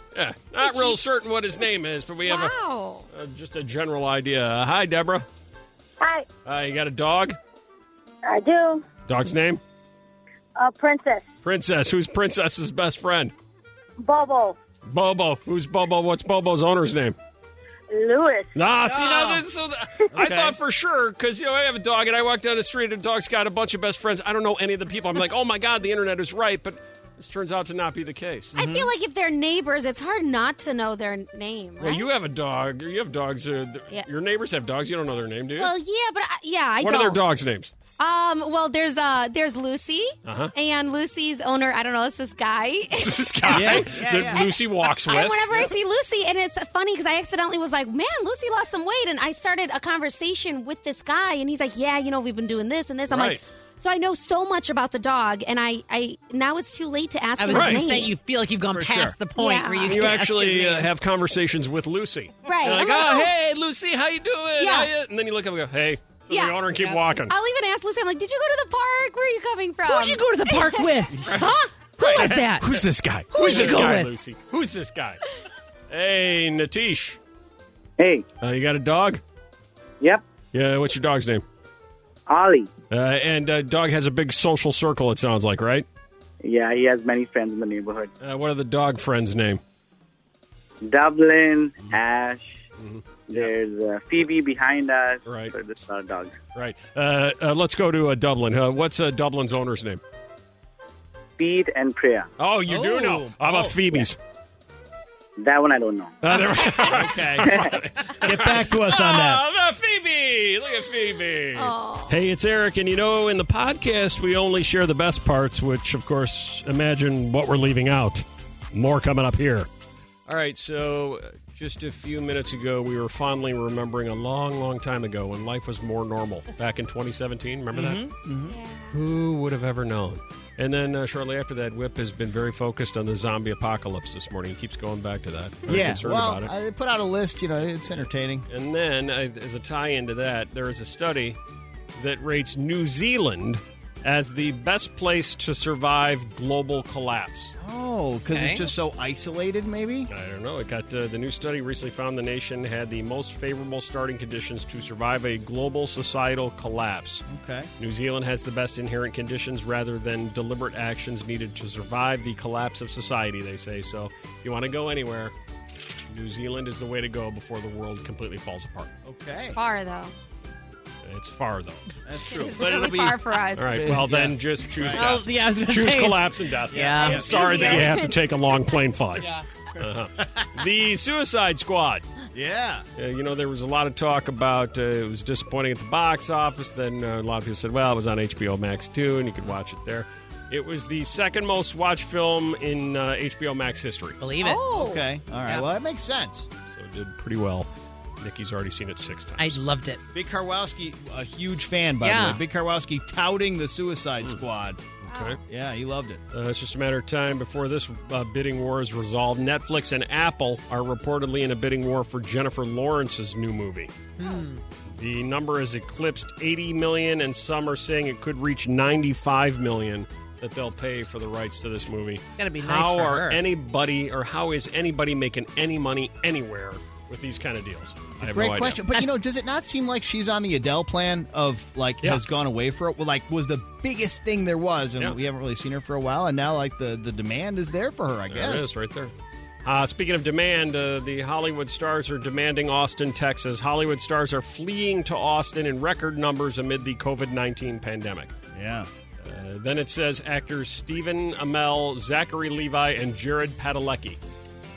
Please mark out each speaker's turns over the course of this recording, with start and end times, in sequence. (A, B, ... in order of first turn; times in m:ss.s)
0:00.1-0:02.5 A
0:00.6-0:00.9 B
0:02.2-0:03.0 B
0:03.1-0:05.2 A
0:06.0-0:06.2 C
0:06.4-0:07.4 A
0:08.2-0:08.8 C
0:09.1-0:09.6 A
0:10.6-0:11.2 C
0:11.4-0:13.3 A
0:14.0-0:14.6 C
0:14.8-0:17.2 A
0:17.9-0:18.6 C
0:18.5-0:28.5 A
0:18.9-0:19.4 D
0:20.1-0:20.6 D
0:28.5-0:28.9 D
0:28.5-0:32.1 B
0:31.8-0:35.7 A
0:35.6-0:37.2 B
0:36.8-0:37.7 A
0:38.0-0:58.1 B
0:40.2-0:40.5 A
0:43.0-0:45.7 A
0:43.5-0:44.5 D
0:53.1-0:53.4 A
0:57.4-1:00.9 E
0:57.5-0:57.8 A
0:58.7-0:59.2 A
0:59.4-1:00.1 B
0:59.8-1:07.3 A
1:02.4-1:03.3 B
1:04.6-1:04.9 B
1:06.3-1:10.8 B
1:09.9-1:14.1 E
1:12.0-1:15.2 A
1:15.9-1:17.2 A
1:18.0-1:18.2 F
1:18.4-1:19.2 A
1:20.5-1:21.4 A
1:22.3-1:22.7 F
1:22.9-1:25.8 A
1:26.4-1:28.1 F
1:28.2-1:29.6 A
1:30.9-1:32.6 F
1:32.8-1:33.5 A
1:33.3-1:36.4 F
1:35.2-1:35.5 A
1:36.5-1:40.0 A
1:41.4-1:42.3 F
1:42.4-1:44.2 A
1:42.7-1:43.7 E
1:45.4-1:46.2 F
1:46.2-1:59.7 A
1:46.8-1:49.4 D
1:51.6-1:52.2 B
2:00.3-2:08.0 A
2:07.7-2:08.6 D
2:08.4-2:09.0 B
2:08.9-2:16.5 A
2:15.7-2:18.4 D
2:18.5-2:21.4 A
2:22.0-2:27.5 A
2:27.6-2:30.1 D
2:28.3-2:28.7 E
2:30.1-2:37.2 A
2:37.3-2:37.7 D
2:37.8-2:45.3 A
2:46.1-2:48.9 A
2:49.0-2:49.6 D
2:49.5-2:50.1 B
2:51.0-2:51.8 A
2:52.0-2:53.2 D
2:52.3-2:53.7 B
2:53.6-3:02.0 A
2:53.7-2:55.1 D
2:54.9-2:57.2 E
2:56.7-2:57.3 D
2:57.0-2:58.2 B
3:00.2-3:00.5 D
3:02.3-3:02.8 D
3:03.0-3:14.2 A
3:14.2-3:14.6 E
3:14.4-3:15.0 B
3:14.6-3:16.5 D
3:16.7-3:17.7 A
3:18.2-3:19.6 A
3:19.4-3:20.0 E
3:20.1-3:24.8 D
3:22.0-3:22.4 E
3:25.0-3:25.4 A
3:25.1-3:25.4 B
3:25.5-3:26.2 D
3:26.3-3:33.9 A
3:34.2-3:34.6 E
3:34.9-3:48.8 A
3:42.4-3:43.4 E
3:48.2-3:58.7 D
3:58.3-3:59.1 A
3:59.6-4:08.3 A
4:08.5-4:08.9 D
4:09.2-4:14.2 A